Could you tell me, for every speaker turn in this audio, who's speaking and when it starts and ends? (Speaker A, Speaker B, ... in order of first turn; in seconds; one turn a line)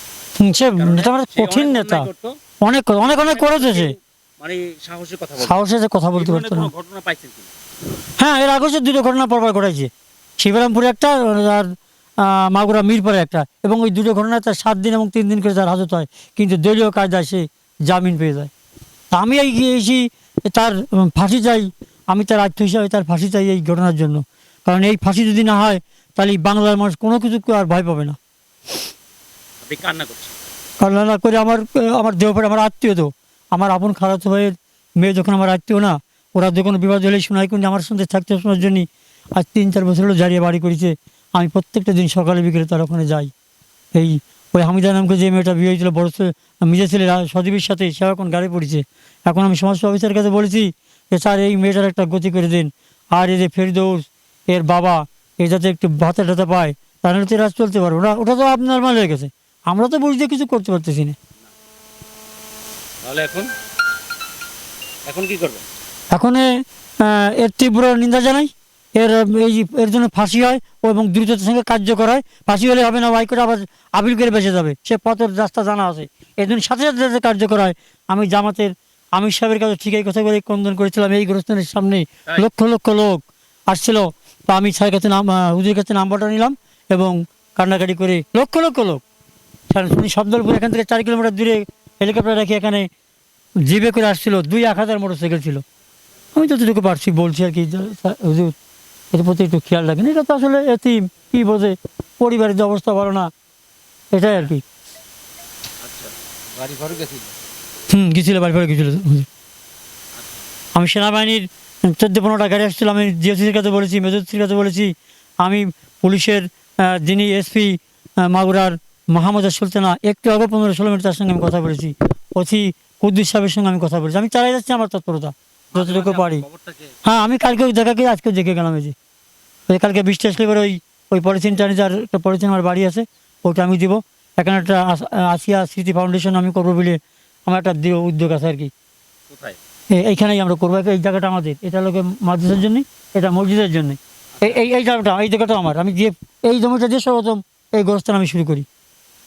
Speaker A: 0.4-2.1
Speaker B: 0.8-2.4
Speaker A: 2.6-4.0
Speaker B: 3.0-7.5
Speaker A: 5.4-6.7
Speaker A: 8.2-18.5
Speaker A: 19.1-28.2
Speaker B: 29.6-30.3
Speaker A: 30.8-43.3
Speaker A: 43.9-61.2
Speaker B: 63.1-63.5
Speaker B: 65.1-65.6
Speaker A: 66.1-89.0
Speaker A: 89.7-92.9
Speaker A: 93.7-95.6
Speaker A: 96.3-98.5
Speaker A: 99.1-103.3
Speaker A: 104.1-104.6
Speaker B: 105.8-107.3
Speaker A: 107.9-109.3
Speaker A: 110.8-126.4
Speaker B: 125.7-126.9
Speaker A: 127.0-128.9
Speaker A: 129.7-138.7
Speaker B: 139.3-139.6
Speaker A: 139.9-148.7